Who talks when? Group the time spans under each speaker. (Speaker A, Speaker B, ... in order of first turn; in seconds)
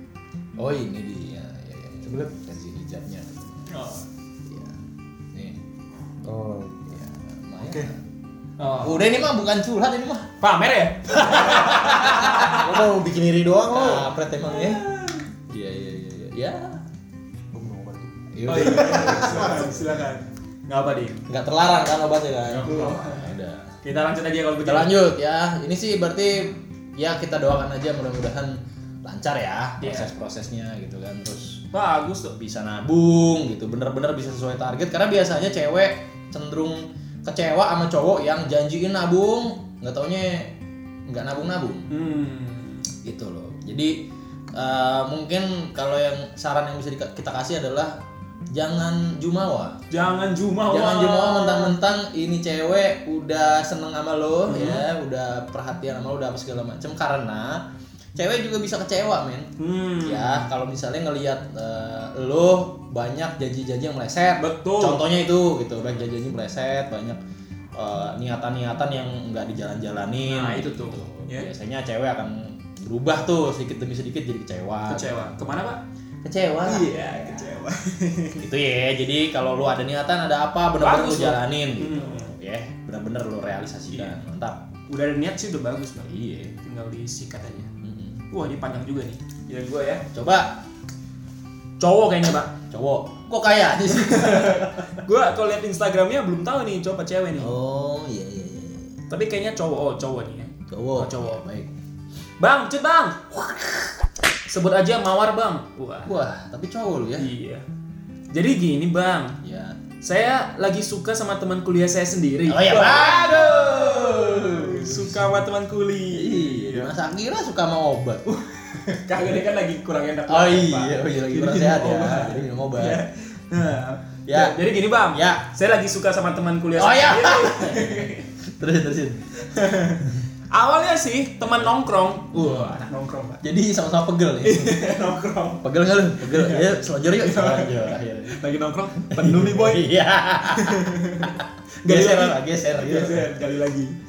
Speaker A: 0.6-3.7, 4.5-4.8, 5.3-5.6, 6.9-8.0, 8.8-10.3, 11.1-12.6, 13.7-14.8, 15.5-16.8, 18.3-19.8, 21.3-23.7, 24.6-31.6, 32.4-40.5, 41.1-41.9, 43.0-48.0, 48.5-49.8, 50.7-57.6, 58.1-59.5, 60.0-67.2, 67.8-75.3, 76.2-77.5, 78.4-84.6, 86.1-86.5, 87.8-88.2, 90.1-90.6, 92.7-94.9, 97.4-98.9, 100.7-101.7, 103.3-103.9, 106.1-107.3, 109.4-109.8, 112.5-115.1, 116.1-118.2, 120.3-123.0, 124.3-124.6, 125.1-125.4, 126.8-128.0, 128.6-129.2, 132.3-132.8, 133.4-134.8, 135.6-138.3, 139.1-143.3
Speaker B: 2.1-2.3, 6.2-7.0, 7.6-7.9, 12.5-14.1, 17.5-19.9, 22.6-23.0
Speaker C: 3.7-4.0, 8.6-9.1, 10.4-12.8, 14.4-15.2, 18.5-21.3, 22.5-24.9, 29.8-30.1, 31.7-32.4, 41.9-42.9, 49.9-51.8, 54.5-54.9, 59.6-60.5, 64.4-65.0, 70.3-71.5, 74.9-75.8, 76.7-78.5, 80.8-82.3, 83.9-84.2, 84.9-87.7, 88.3-90.1, 91.8-92.5, 94.1-97.5, 99.1-101.4, 102.4-103.2, 104.5-106.1, 107.2-107.7, 108.3-109.4, 110.0-116.9, 118.3-128.3, 129.5-133.4, 134.4-135.7, 136.2-139.9, 140.5-144.0